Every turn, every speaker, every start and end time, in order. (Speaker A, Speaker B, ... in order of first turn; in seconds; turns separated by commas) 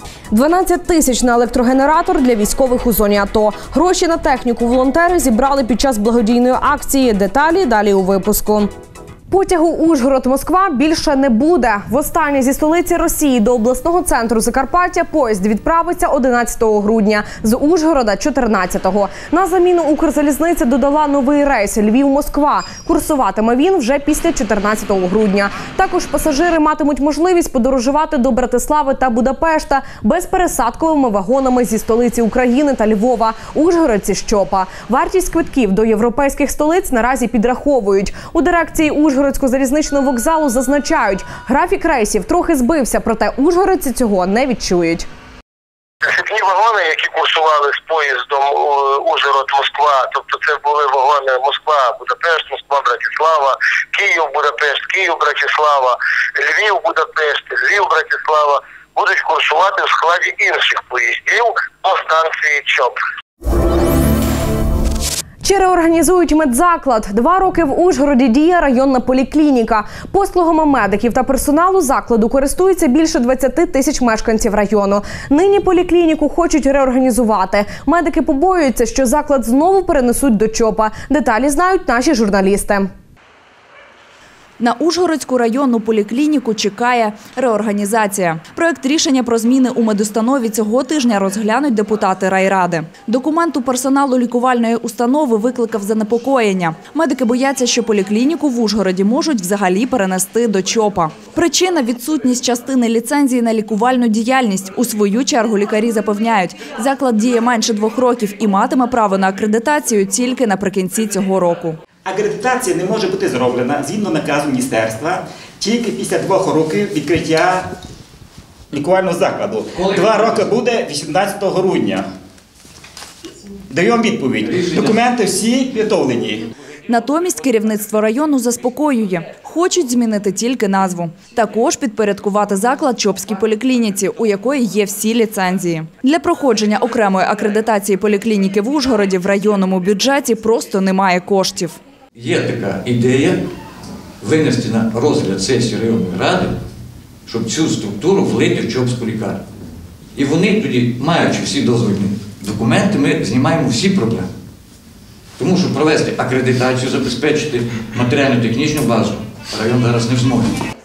Speaker A: 0.3-8.7, Speaker A: 9.3-45.1, Speaker B: 46.0-63.0, Speaker A: 65.4-82.9, Speaker C: 84.6-111.8, Speaker D: 112.0-117.7, Speaker D: 118.7-122.0, Speaker D: 123.7-126.4, Speaker C: 126.9-141.8, Speaker E: 142.2-143.4, Speaker E: 144.2-146.5, Speaker E: 147.3-149.4, Speaker E: 150.2-154.3, Speaker E: 155.4-160.5